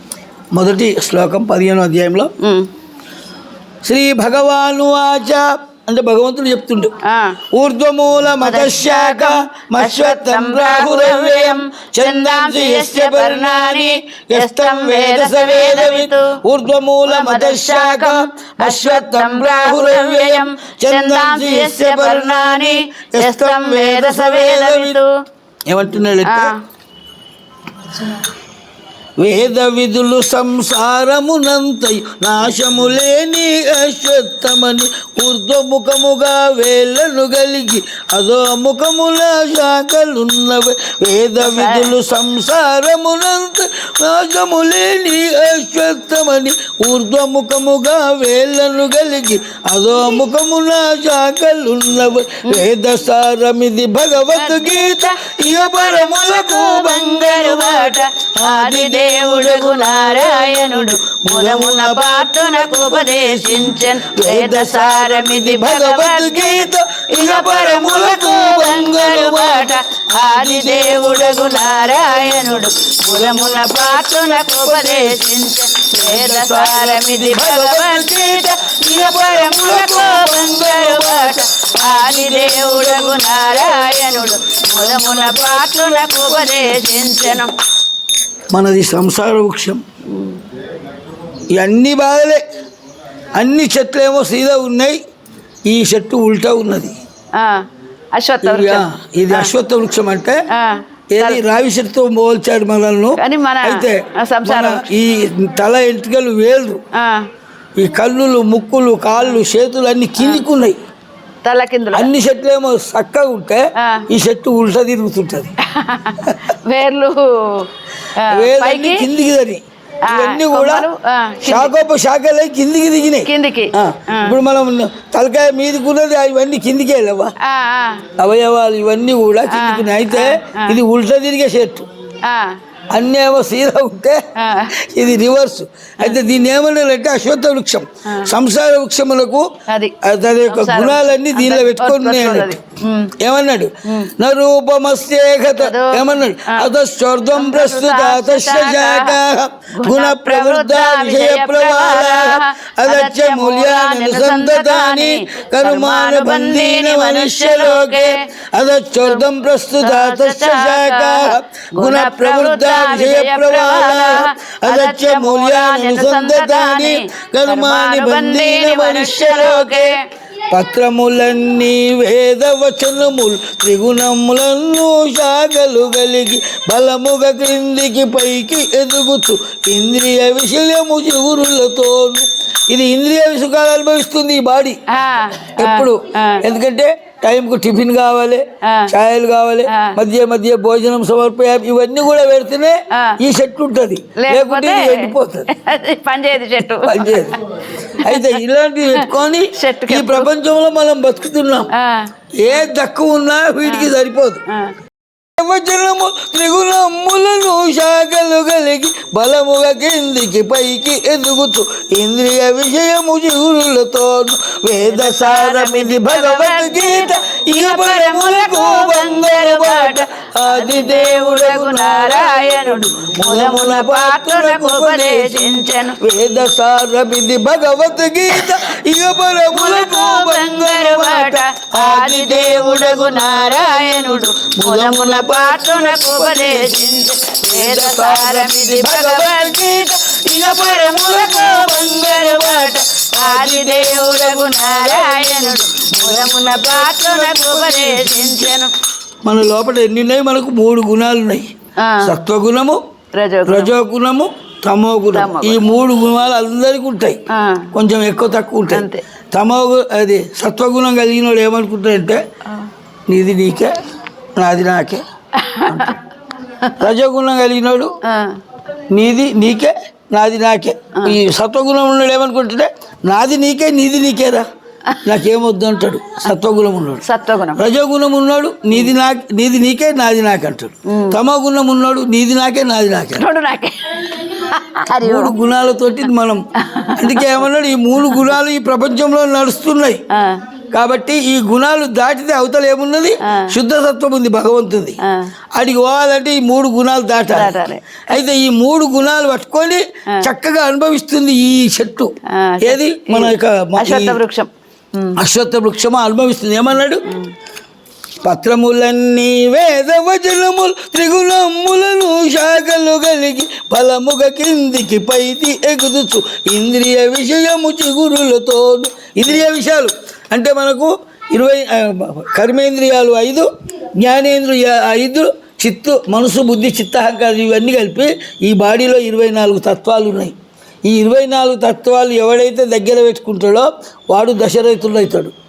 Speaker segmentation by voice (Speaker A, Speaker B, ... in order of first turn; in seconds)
Speaker A: 0.5-2.3, 3.8-6.9, 7.5-25.0, 25.7-26.5, 29.2-75.3, 75.9-86.6, 88.5-89.8, 91.5-92.4, 93.3-95.0, 95.7-97.0, 98.4-100.4, 101.1-106.8, 107.8-110.8, 111.9-115.5, 118.3-120.9, 121.4-127.3, 128.2-131.9, 132.9-142.6, 143.2-169.9, 170.5-184.8, 185.6-195.5, 196.8-197.4, 198.0-201.7, 202.3-204.4, 205.4-248.5, 249.3-251.5, 252.0-252.8, 253.5-262.2, 263.1-263.8, 264.4-265.0, 265.6-266.0, 266.8-267.9, 268.9-274.5, 275.0-283.2, 285.0-290.0, 290.7-295.0, 295.6-297.5, 298.1-304.2, 305.2-307.1, 308.2-323.5, 324.0-330.4, 330.9-335.3
Speaker B: 2.4-2.7, 7.0-7.4, 8.4-16.4, 17.0-25.1, 26.2-26.6, 41.4-41.9, 54.3-87.5, 90.1-90.4, 97.3-99.5, 100.5-101.4, 103.2-104.8, 106.9-107.3, 110.2-110.5, 111.4-112.1, 113.8-114.1, 115.6-119.1, 120.1-121.8, 123.3-124.4, 127.4-128.1, 129.5-130.8, 132.2-132.6, 134.4-134.7, 138.1-138.3, 139.7-139.9, 140.5-143.2, 143.8-144.1, 145.5-146.7, 147.3-149.2, 149.8-158.2, 159.0-159.3, 159.8-170.0, 184.9-186.4, 188.6-188.9, 189.7-190.0, 192.9-193.2, 194.2-197.5, 198.0-200.3, 201.7-202.1, 203.7-203.9, 204.5-204.7, 214.9-226.0, 229.5-248.7, 251.8-252.1, 253.1-253.7, 255.1-255.6, 257.3-257.7, 258.7-259.0, 265.4-266.0, 268.0-268.4, 277.0-277.6, 280.9-281.2, 283.2-285.4, 286.6-287.4, 288.0-288.4, 290.1-290.4, 295.0-295.3, 297.3-298.0, 302.3-305.2